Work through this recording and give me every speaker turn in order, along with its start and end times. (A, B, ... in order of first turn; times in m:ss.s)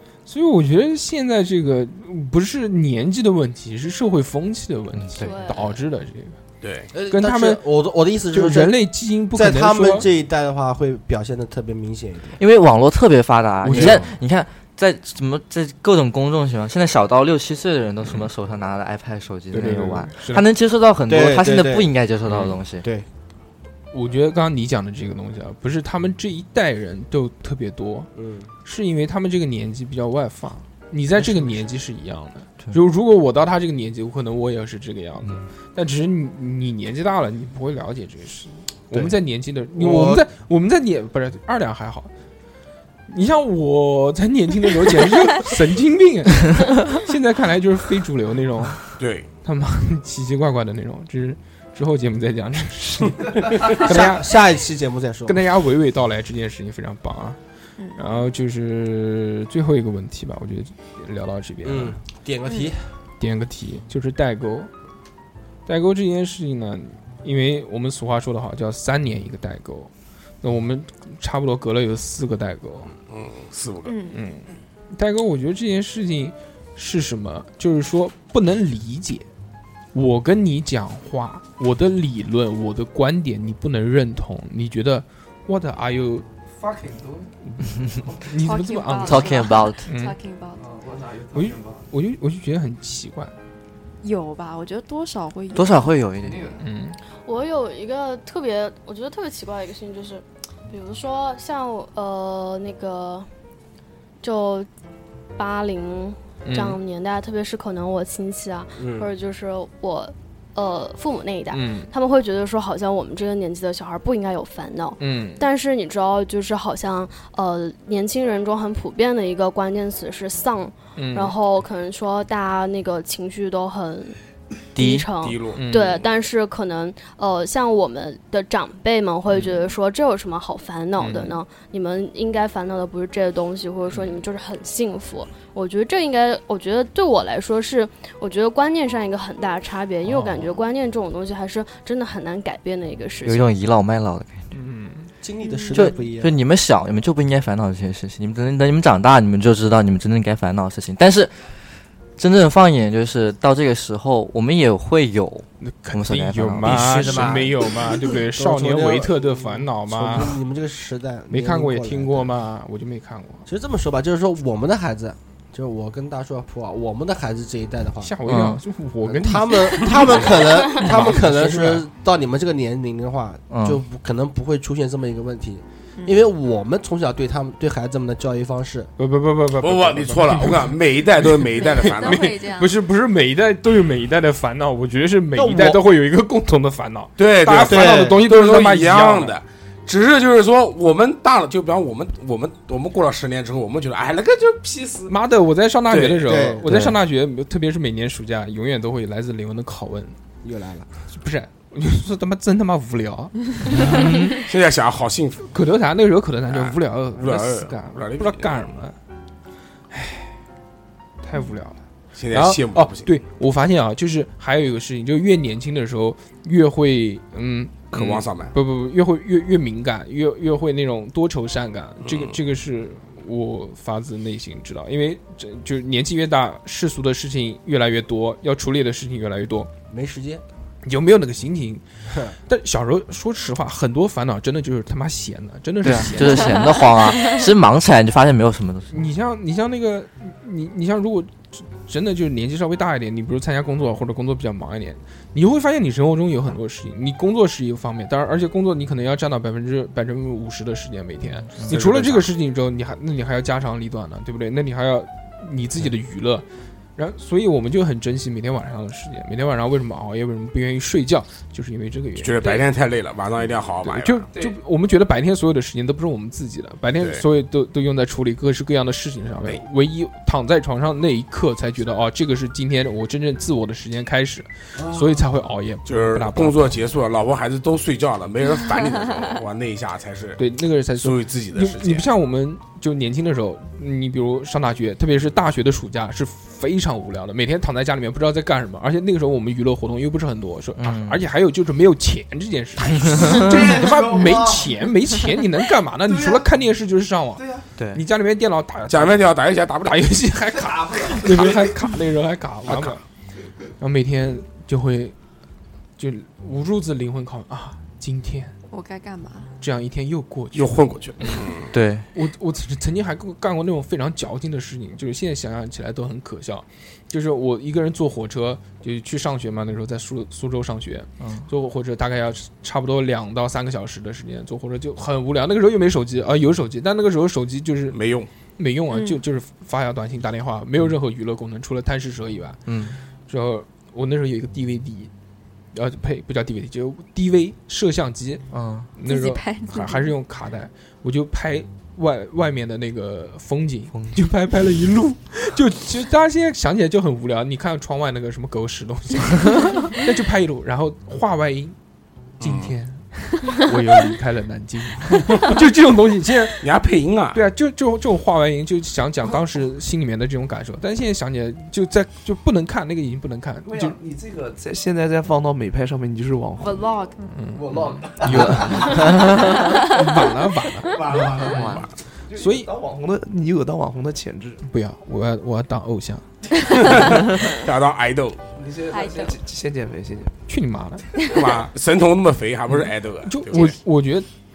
0:00.3-0:06.4 A
0:05.0-0:05.5 B
0:05.2-0:05.8 C
0:06.6-0:06.9 D
0:06.9-0:08.8 E
0:07.1-0:07.6 A
0:08.3-0:10.1 A
0:09.3-0:12.4 E
0:12.4-0:22.8 B
0:13.6-0:14.0 A
0:13.7-0:14.1 E
0:19.5-0:20.4 A
0:21.1-0:21.9 E
0:22.3-0:22.5 A
0:23.9-0:28.1 A
0:28.2-0:28.5 E
0:28.6-0:42.1 A
0:39.7-0:40.2 E
0:43.1-0:54.3 A
0:49.0-0:49.3 D
0:53.8-0:55.4 E
0:55.3-0:57.4 A
0:57.8-0:58.0 F
0:58.0-1:02.0 A
1:01.6-1:02.9 E
1:02.5-1:02.7 F
1:03.2-1:04.7 A
1:05.7-1:09.9 A
1:10.4-1:12.9 A
1:13.0-1:14.0 D
1:13.8-1:14.2 F
1:14.1-1:19.3 A
1:19.9-1:26.3 A
1:26.6-1:27.3 G
1:27.5-1:30.2 A
1:28.4-1:30.7 F
1:29.0-1:29.9 B
1:30.8-1:31.8 G
1:31.3-1:33.4 A
1:34.0-1:35.9 F
1:35.6-1:36.6 B
1:36.6-1:37.0 A
1:37.2-1:43.3 C
1:44.2-1:44.7 C
1:45.4-2:04.2 C
1:46.4-1:46.8 A
1:48.8-1:49.1 E
1:51.5-1:51.9 A
1:55.0-1:55.4 A
2:01.0-2:01.4 A
2:04.8-2:23.5 C
2:04.8-2:05.1 B
2:05.2-2:05.6 D
2:05.6-2:06.0 A
2:11.0-2:11.4 A
2:13.9-2:14.2 A
2:23.2-2:24.5 B
2:24.5-2:25.1 A
2:25.2-2:26.4 E
2:25.4-2:25.9 F
2:25.7-2:31.6 B
2:32.2-2:37.3 B
2:35.6-2:40.4 A
2:36.7-2:37.7 E
2:36.8-2:37.3 D
2:38.2-2:42.3 E
2:41.3-2:43.4 A
2:43.5-2:48.2 E
2:48.0-2:51.8 A
2:48.2-2:48.6 B
2:49.1-2:58.9 E
2:53.5-2:53.8 B
2:56.0-2:56.2 F
2:59.0-3:09.4 A
2:59.6-3:02.4 D
3:01.6-3:02.8 F
3:05.3-3:05.8 E
3:07.2-3:15.1 D
3:07.7-3:08.2 E
3:15.1-3:20.2 A
3:15.9-3:16.4 D
3:16.3-3:16.7 E
3:16.6-3:17.0 B
3:20.4-3:20.9 E
3:21.1-3:24.2 A
3:23.7-3:25.5 D
3:25.5-3:29.0 A
3:26.5-3:28.7 D
3:29.9-3:30.4 A
3:31.2-3:31.8 A
3:32.2-3:33.2 D
3:32.3-3:49.7 A
3:37.9-3:38.6 D
3:42.0-3:42.4 D
3:49.9-3:50.4 E
3:50.8-3:51.8 A
3:52.5-3:56.7 A
3:55.8-3:58.9 B
3:56.2-3:57.5 F
3:58.9-4:16.4 A
4:11.4-4:11.8 B
4:11.6-4:12.3 D
4:17.0-4:22.7 A
4:22.2-4:24.3 D
4:23.8-4:36.8 A
4:27.0-4:27.2 D
4:35.8-4:40.4 D
4:40.4-4:59.3 A
4:41.0-4:42.1 D
4:50.8-4:51.2 B
4:53.0-4:53.9 B
4:53.6-4:54.6 G
4:57.8-4:58.0 B
4:58.9-5:00.1 D
4:59.8-5:03.0 A
5:01.3-5:01.6 D
5:02.7-5:03.0 D
5:03.8-5:05.2 A
5:06.0-5:08.6 A
5:08.7-5:09.5 F
5:09.6-5:11.5 A
5:10.5-5:11.7 D
5:11.7-5:12.1 B
5:12.1-5:28.0 A
5:21.2-5:21.4 B
5:27.9-5:28.3 D
5:28.6-5:32.6 A
5:28.9-5:29.2 F
5:32.7-5:33.0 B
5:33.3-5:35.1 A
5:35.7-5:51.8 A
5:38.5-5:38.9 B
5:39.0-5:40.1 F
5:52.4-5:52.8 D
5:52.4-5:56.7 A
5:56.6-5:57.4 D
5:57.3-6:04.0 A
6:03.6-6:07.0 G
6:06.6-6:07.2 F
6:07.3-6:11.6 A
6:07.6-6:09.1 G
6:08.2-6:09.5 B
6:10.8-6:14.6 G
6:11.4-6:11.9 B
6:11.6-6:11.9 D
6:12.4-6:12.7 A
6:14.6-6:17.0 A
6:16.7-6:18.4 D
6:18.5-6:20.4 G
6:18.9-6:19.4 F
6:20.5-6:21.2 A
6:21.3-6:23.8 D
6:22.7-6:24.3 A